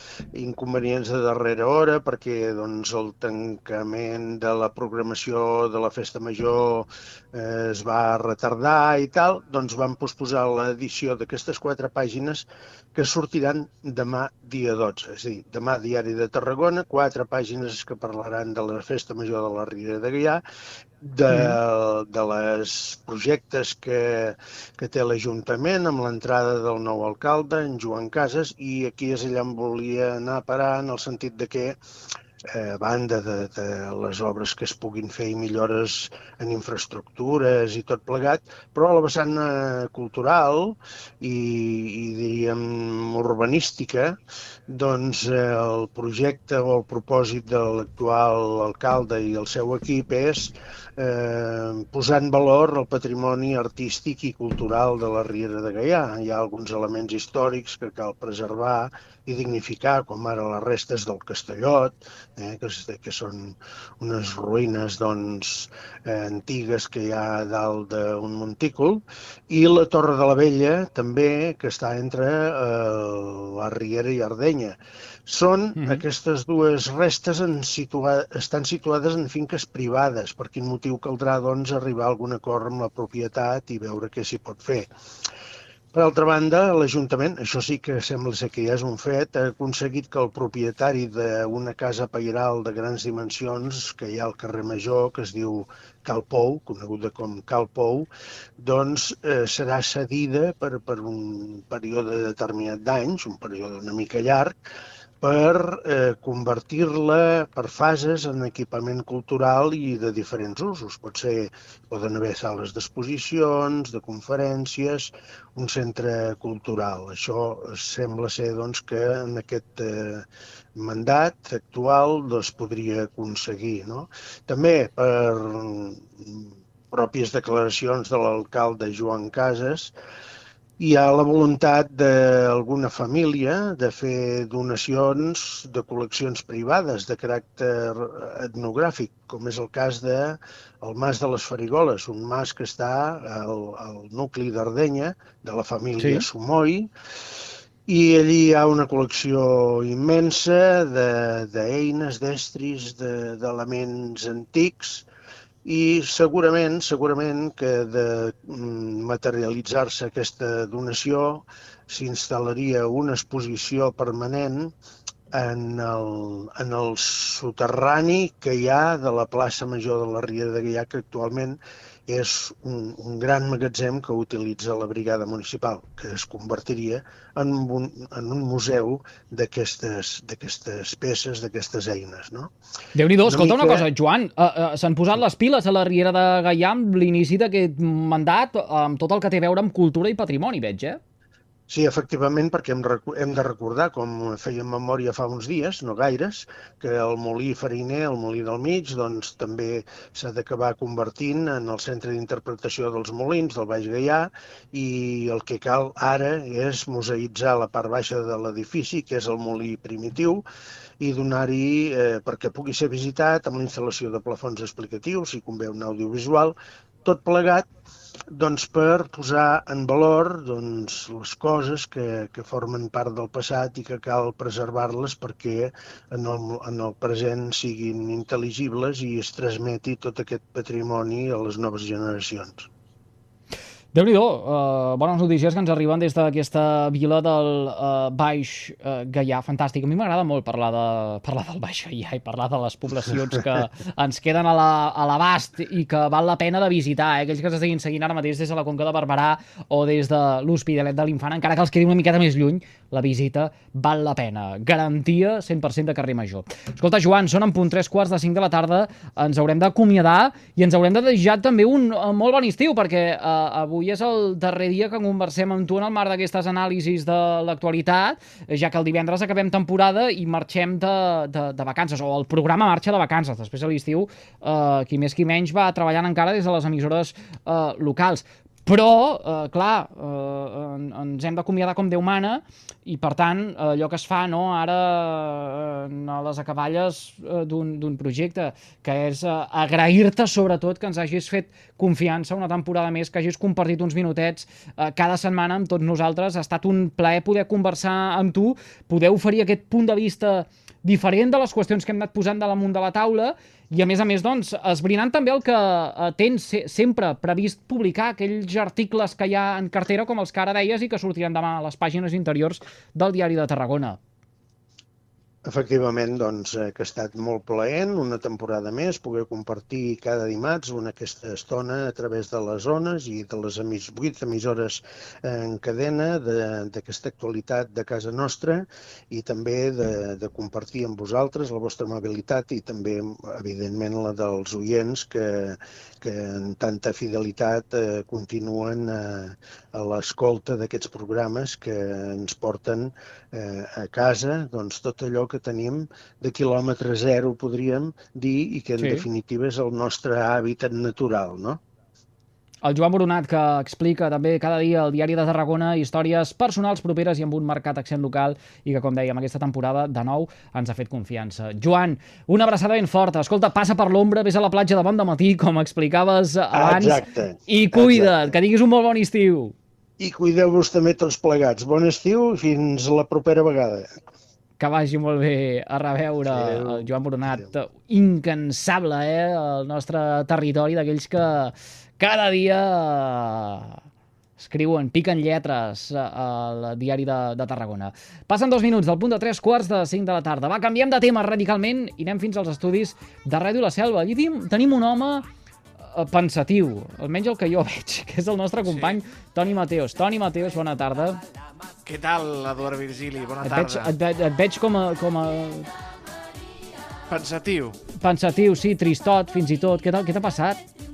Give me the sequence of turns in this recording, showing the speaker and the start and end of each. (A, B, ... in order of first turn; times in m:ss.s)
0:00.3-0:20.4 A
0:21.0-0:31.8 A
0:21.3-0:21.6 B
0:32.5-1:24.9 A
1:15.8-1:16.0 B
1:25.9-1:38.1 A
1:38.6-1:44.6 A
1:45.2-2:09.9 A
2:10.8-2:26.9 A
2:27.9-2:35.1 A
2:35.6-2:44.7 A
2:45.3-3:02.5 A
3:02.9-3:11.0 B
3:03.2-3:03.8 A
3:11.7-3:30.4 A
3:31.0-3:37.7 A
3:38.3-3:52.7 A
3:53.9-5:14.0 B
5:15.4-5:51.6 A
5:48.8-5:49.1 B
5:52.6-6:09.6 B
6:06.5-6:08.4 A
6:10.0-6:13.9 A
6:14.6-6:23.8 B
6:16.3-6:17.4 A
6:24.4-6:35.2 B
6:35.8-6:41.2 B
6:38.6-6:39.0 C
6:41.8-6:43.9 C
6:43.4-6:45.7 B
6:47.1-6:47.8 C
6:47.9-6:50.6 B